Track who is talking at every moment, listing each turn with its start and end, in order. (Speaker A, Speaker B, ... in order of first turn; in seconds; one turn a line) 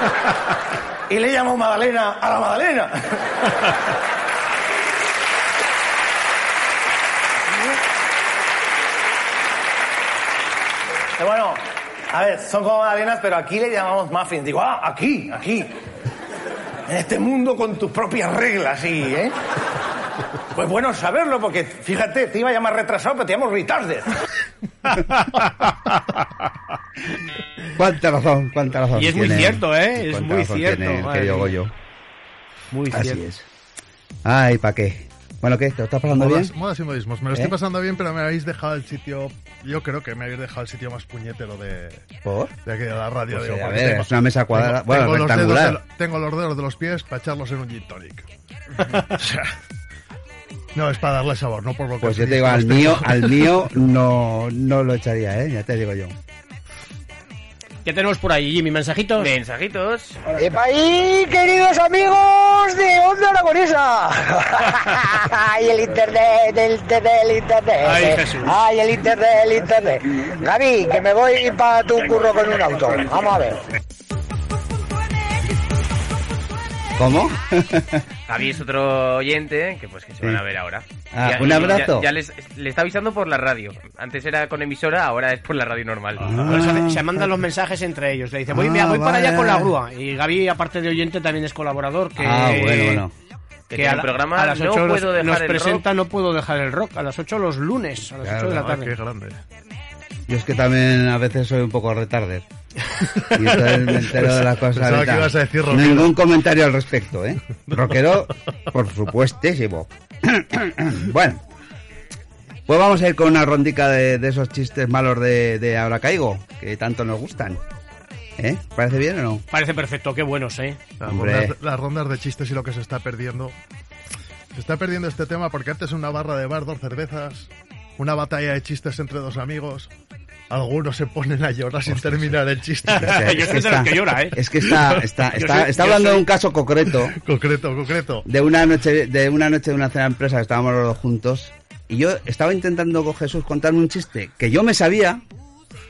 Speaker A: 1.1-3.2
Speaker A: 11.2-15.8
Speaker A: 16.9-19.3
Speaker A: 20.5-24.1
Speaker B: 24.9-25.9
Speaker C: 27.8-31.7
Speaker B: 28.9-31.5
Speaker B: 32.7-33.2
Speaker C: 32.9-33.5
Speaker C: 34.2-36.5
Speaker D: 36.1-42.0
Speaker C: 42.2-42.5
Speaker D: 42.6-48.2
Speaker C: 43.3-45.8
Speaker D: 48.9-49.5
Speaker D: 50.8-53.5
Speaker C: 52.0-56.1
Speaker B: 57.8-59.3
Speaker E: 59.2-60.2
Speaker F: 60.3-73.6
Speaker B: 67.8-68.5
Speaker C: 77.0-78.0
Speaker E: 78.3-86.4
Speaker C: 81.1-82.1
Speaker C: 86.2-87.4
Speaker B: 86.4-93.0
Speaker C: 88.5-89.8
Speaker C: 92.2-93.1
Speaker E: 93.7-95.8
Speaker B: 93.7-98.9
Speaker C: 98.2-98.6
Speaker D: 98.5-99.4
Speaker C: 100.3-102.4
Speaker C: 103.3-111.4
Speaker D: 103.7-106.1
Speaker C: 112.7-117.6
Speaker C: 118.4-119.4
Speaker B: 119.5-120.8
Speaker D: 121.0-123.5
Speaker C: 121.0-121.5
Speaker D: 124.5-129.9
Speaker D: 130.5-133.4
Speaker C: 131.9-132.4
Speaker B: 132.9-134.4
Speaker C: 133.0-137.2
Speaker B: 135.3-136.2
Speaker D: 137.1-138.2
Speaker C: 138.2-145.2